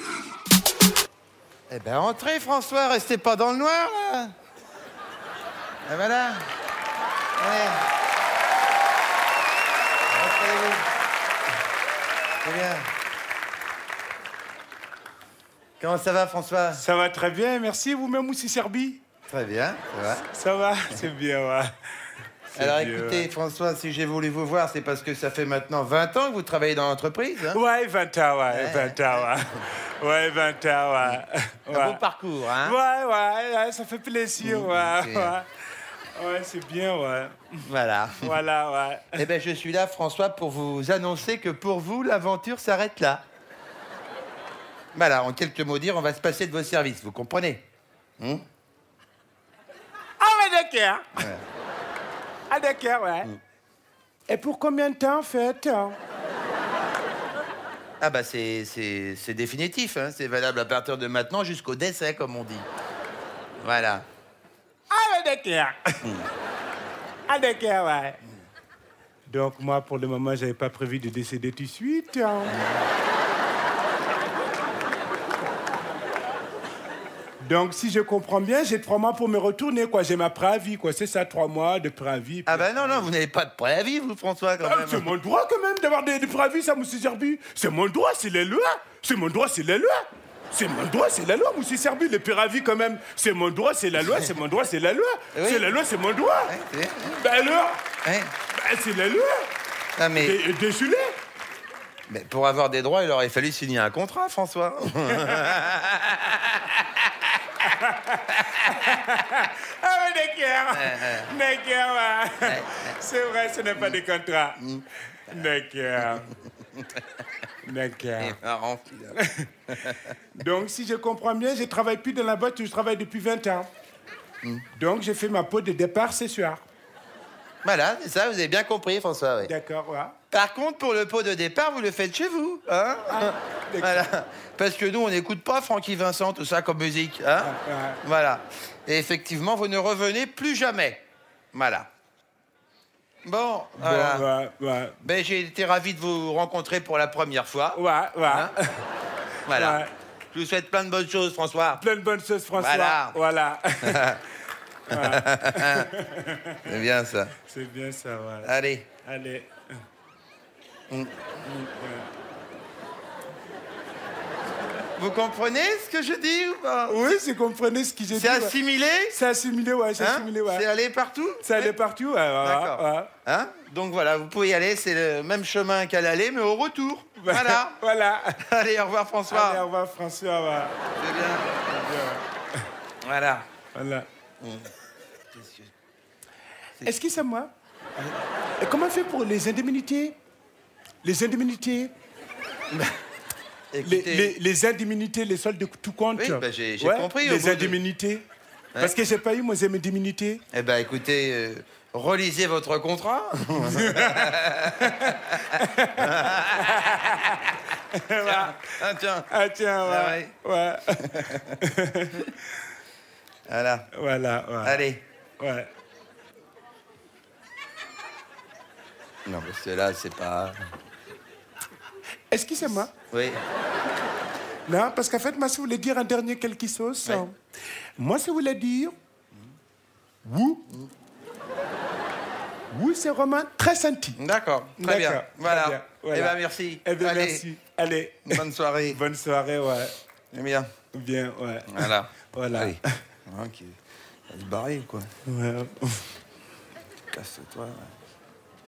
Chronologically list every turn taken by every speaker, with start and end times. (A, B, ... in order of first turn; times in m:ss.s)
0:01.7-0:04.3 A
0:05.8-0:06.4 A
0:07.4-0:07.8 A
0:10.1-0:10.8 A
0:12.4-0:12.9 A
0:15.8-0:16.8 A
0:16.7-0:19.0 B
0:19.3-0:20.2 A
0:20.3-0:21.7 B
0:22.5-0:23.3 B
0:22.6-0:27.6 A
0:27.5-0:32.0 B
0:28.5-0:29.4 A
0:31.0-0:32.8 A
0:32.6-0:35.5 B
0:34.4-0:35.3 A
0:36.2-0:37.7 B
0:37.6-0:38.4 A
0:38.2-0:39.2 B
0:39.2-0:43.2 A
0:44.9-0:47.6 A
0:48.2-0:48.4 A
0:50.2-0:51.3 B
0:51.2-0:51.4 A
0:52.5-0:53.3 B
0:54.3-0:56.0 B
0:58.0-1:02.7 A
1:03.6-1:04.0 A
1:04.9-1:06.1 B
1:07.3-1:08.2 B
1:09.3-1:12.6 B
1:12.5-1:12.8 A
1:17.4-1:23.1 B
1:22.4-1:25.1 A
1:24.6-1:36.5 B
1:35.3-1:35.7 A
1:36.5-1:37.2 A
1:37.1-1:37.8 B
1:38.0-1:38.3 A
1:38.5-1:39.5 B
1:40.0-1:40.4 A
1:40.1-1:41.2 B
1:42.1-1:46.8 A
1:45.1-1:45.5 B
1:47.6-1:54.6 B
1:50.7-1:51.3 A
1:52.4-1:52.9 A
1:54.6-1:55.4 A
1:55.3-1:56.3 B
1:57.6-1:58.4 B
1:58.2-1:59.2 A
1:59.1-1:59.5 B
1:59.7-2:00.1 A
2:00.4-2:03.7 B
2:04.8-2:06.6 B
2:07.6-2:09.5 A
2:09.4-2:10.2 B
2:10.3-2:21.9 A
2:13.2-2:14.0 B
2:17.4-2:18.0 B
2:23.2-2:24.3 A
2:23.8-2:25.0 B
2:25.0-2:28.5 A
2:27.7-2:28.8 B
2:29.4-2:29.8 A
2:29.5-2:29.9 B
2:30.3-2:31.8 A
2:31.8-2:34.2 B
2:32.5-2:33.2 A
2:33.8-2:34.2 A
2:34.9-2:36.8 B
2:34.9-2:35.9 A
2:36.6-2:37.4 A
2:37.4-2:38.5 B
2:38.4-2:38.9 A
2:39.0-2:39.6 B
2:40.9-2:41.3 A
2:41.4-2:42.1 B
2:45.0-2:47.0 A
2:46.9-2:48.5 B
2:48.1-2:49.2 A
2:49.1-2:50.6 B
2:50.0-2:51.7 A
2:51.4-2:53.1 B
2:52.4-2:57.8 A
2:57.2-2:58.4 B
2:58.4-2:59.6 A
2:59.3-3:00.7 B
3:01.0-3:01.7 A
3:01.7-3:02.2 B
3:03.0-3:03.4 A
3:03.7-3:04.1 B
3:04.4-3:04.7 A
3:05.3-3:05.7 A
3:06.8-3:07.5 B
3:08.6-3:10.2 B
3:11.0-3:11.9 B
3:13.7-3:14.4 A
3:13.8-3:18.2 B
3:16.2-3:17.8 A
3:18.8-3:20.4 B
3:20.5-3:27.0 A
3:23.7-3:27.3 B
3:27.9-3:28.6 B
3:28.2-3:29.3 A
3:29.3-3:32.3 B
3:29.8-3:30.3 A
3:31.1-3:31.6 A
3:33.5-3:33.9 A
3:33.9-3:34.8 B
3:34.6-3:35.0 A
3:35.4-3:35.7 B
3:39.2-3:40.6 A
3:42.3-3:42.9 B
3:43.1-3:43.4 A
3:44.7-3:47.4 B
3:48.0-3:48.9 B
3:50.2-3:50.7 B
3:52.7-3:54.2 B
3:54.2-3:57.4 A
3:54.8-4:00.0 B
3:58.3-3:59.0 A
4:00.3-4:00.7 A
4:00.9-4:02.9 B
4:01.7-4:03.8 A
4:04.3-4:05.1 A
4:05.2-4:06.1 B
4:07.1-4:07.9 A